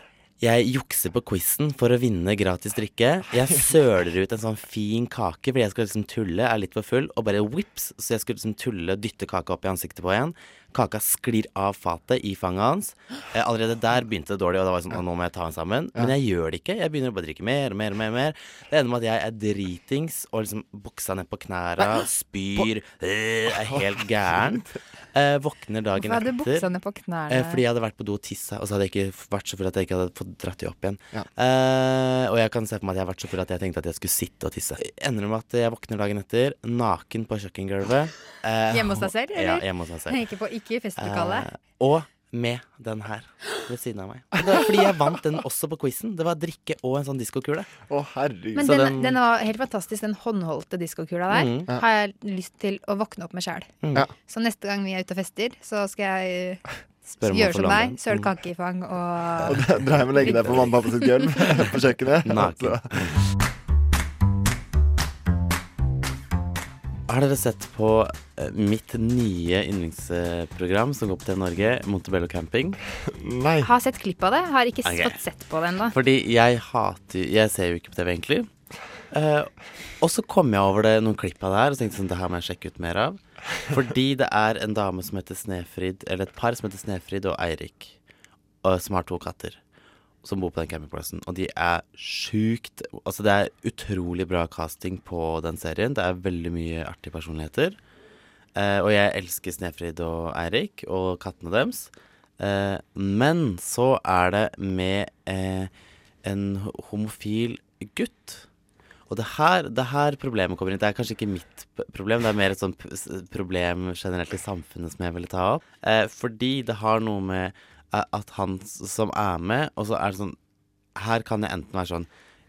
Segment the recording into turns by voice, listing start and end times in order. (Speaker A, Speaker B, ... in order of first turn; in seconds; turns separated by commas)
Speaker A: 0.4-26.7, Speaker B: 23.6-24.7, Speaker C: 26.0-27.6, Speaker A: 27.3-40.2, Speaker C: 38.7-41.5, Speaker A: 41.0-47.7, Speaker B: 47.9-48.7, Speaker C: 48.5-61.5, Speaker A: 48.6-49.2, Speaker A: 51.3-51.7, Speaker A: 57.2-58.3, Speaker A: 59.4-60.8, Speaker B: 59.4-63.0, Speaker A: 62.2-63.2, Speaker A: 67.1-72.8, Speaker B: 73.1-73.7, Speaker C: 73.6-75.9, Speaker A: 74.8-75.2, Speaker A: 75.9-78.5, Speaker A: 79.1-88.0, Speaker A: 88.6-89.6, Speaker A: 90.2-97.8, Speaker A: 98.5-105.7, Speaker A: 106.2-108.5, Speaker A: 109.1-120.3, Speaker A: 121.0-122.1